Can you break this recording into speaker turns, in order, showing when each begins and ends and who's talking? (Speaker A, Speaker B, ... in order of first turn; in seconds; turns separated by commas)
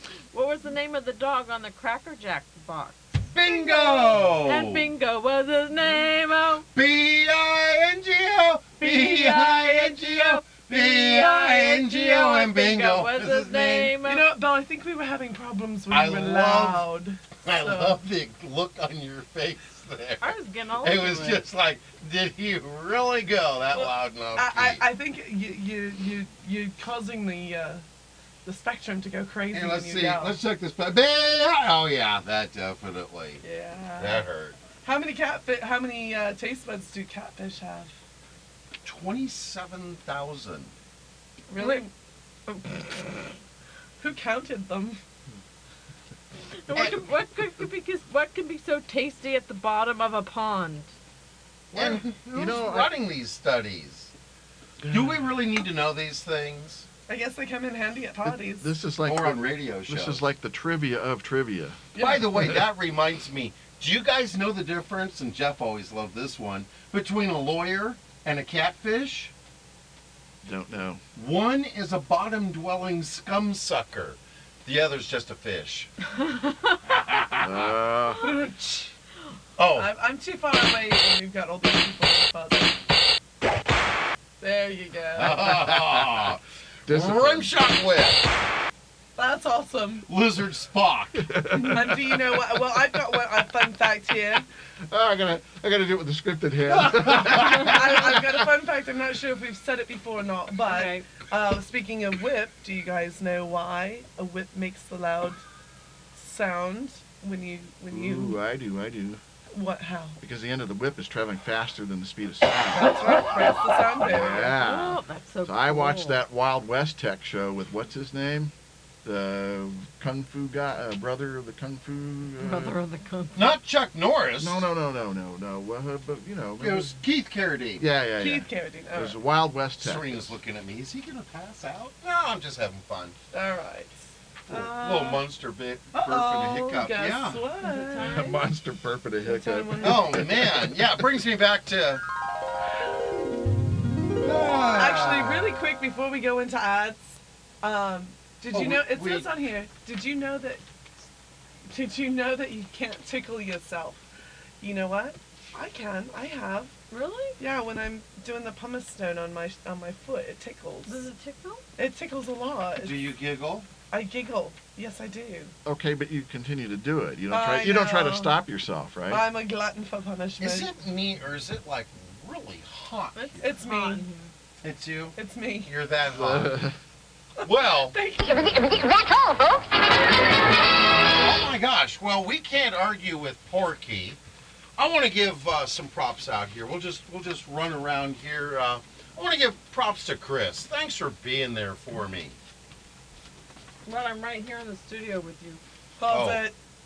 Speaker A: 0.3-6.7, Speaker B: 3.3-4.9, Speaker B: 6.7-13.9, Speaker A: 8.8-14.3, Speaker C: 14.0-18.0, Speaker B: 15.9-16.9, Speaker B: 17.4-24.8, Speaker A: 20.2-21.4, Speaker C: 23.7-27.8, Speaker C: 28.4-30.4, Speaker B: 29.5-33.4, Speaker C: 33.4-34.2, Speaker B: 34.0-34.6, Speaker C: 34.8-37.9, Speaker B: 38.8-40.7, Speaker C: 41.5-41.9, Speaker A: 41.6-41.9, Speaker A: 42.5-43.2, Speaker C: 44.0-45.0, Speaker A: 46.7-50.9, Speaker C: 46.7-47.0, Speaker B: 51.7-54.1, Speaker D: 52.3-52.9, Speaker D: 54.8-55.3, Speaker B: 54.9-56.9, Speaker C: 57.1-58.7, Speaker D: 58.2-62.6, Speaker B: 59.0-60.2, Speaker C: 61.9-62.3, Speaker B: 62.0-69.3, Speaker D: 70.4-71.0, Speaker B: 71.2-75.9, Speaker A: 76.2-76.8, Speaker B: 76.9-77.7, Speaker D: 77.4-78.3, Speaker C: 78.2-78.9, Speaker B: 79.6-79.9, Speaker C: 79.8-82.8, Speaker C: 84.4-85.5, Speaker B: 85.2-88.2, Speaker D: 85.4-86.2, Speaker D: 86.9-87.5, Speaker C: 89.2-90.1, Speaker B: 90.1-91.3, Speaker D: 91.2-93.1, Speaker C: 91.5-94.5, Speaker D: 94.9-98.4, Speaker B: 96.7-97.7, Speaker C: 97.5-105.4, Speaker A: 100.7-101.0, Speaker C: 106.1-108.4, Speaker D: 107.9-109.2, Speaker C: 109.5-110.2, Speaker D: 110.2-113.4, Speaker C: 112.7-114.5, Speaker D: 114.0-118.5, Speaker A: 114.5-116.2, Speaker D: 119.0-122.8, Speaker A: 122.4-123.5, Speaker B: 123.3-124.7, Speaker D: 124.4-127.0, Speaker B: 126.6-127.9, Speaker D: 127.8-130.3, Speaker C: 128.2-129.2, Speaker B: 129.8-133.2, Speaker C: 133.3-133.9, Speaker B: 134.5-137.4, Speaker A: 134.5-135.2, Speaker C: 135.9-138.1, Speaker A: 137.6-138.4, Speaker D: 138.0-141.1, Speaker C: 139.2-140.3, Speaker B: 139.8-142.0, Speaker B: 144.2-145.4, Speaker C: 144.7-147.0, Speaker C: 147.6-150.6, Speaker B: 148.5-149.3, Speaker C: 151.7-154.0, Speaker C: 154.6-156.7, Speaker A: 156.9-157.4, Speaker C: 157.4-161.1, Speaker A: 160.8-161.6, Speaker C: 161.8-163.1, Speaker B: 162.8-163.7, Speaker C: 163.9-165.5, Speaker D: 165.6-169.2, Speaker C: 167.3-168.4, Speaker C: 169.1-170.7, Speaker B: 170.4-173.5, Speaker A: 173.1-174.3, Speaker C: 173.4-174.0, Speaker B: 174.6-176.6, Speaker C: 175.2-175.7, Speaker D: 176.1-176.7, Speaker B: 177.4-178.0, Speaker C: 177.9-178.7, Speaker B: 181.2-184.2, Speaker B: 184.8-192.4, Speaker A: 193.8-195.6, Speaker C: 196.0-196.5, Speaker B: 196.1-196.4